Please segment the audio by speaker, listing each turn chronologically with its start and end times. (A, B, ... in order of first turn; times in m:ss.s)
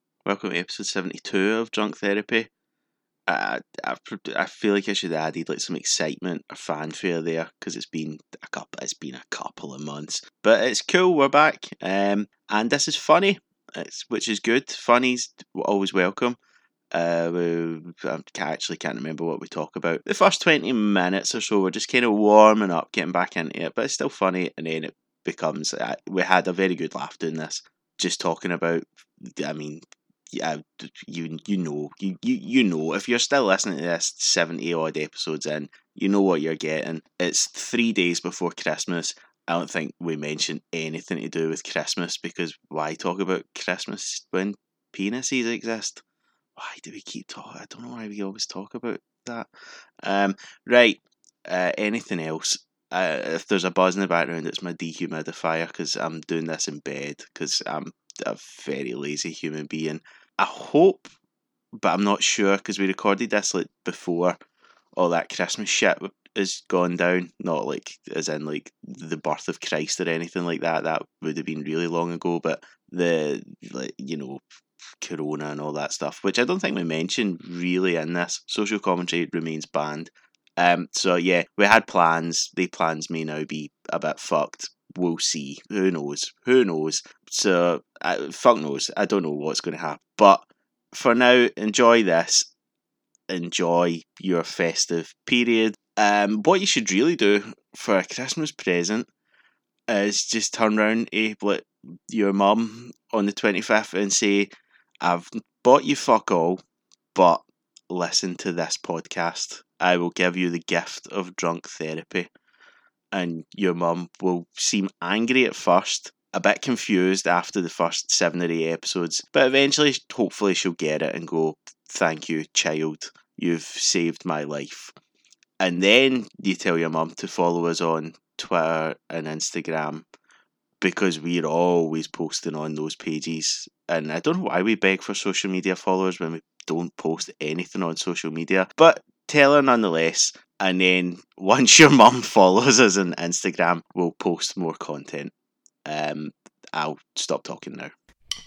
0:00.3-0:02.5 A
0:03.3-0:16.4 A
0:16.9-0:46.0 A
0:46.6-0:49.5 A
0:50.0-1:01.1 A
1:01.8-1:04.4 A
1:05.0-1:14.4 A
1:15.0-1:32.5 A
1:33.3-1:39.1 A
1:39.9-1:44.5 A
1:45.0-1:46.6 A
1:47.2-1:52.3 A
1:53.1-2:04.9 A
2:05.6-2:10.1 A
2:10.8-2:25.3 A
2:25.9-2:27.9 A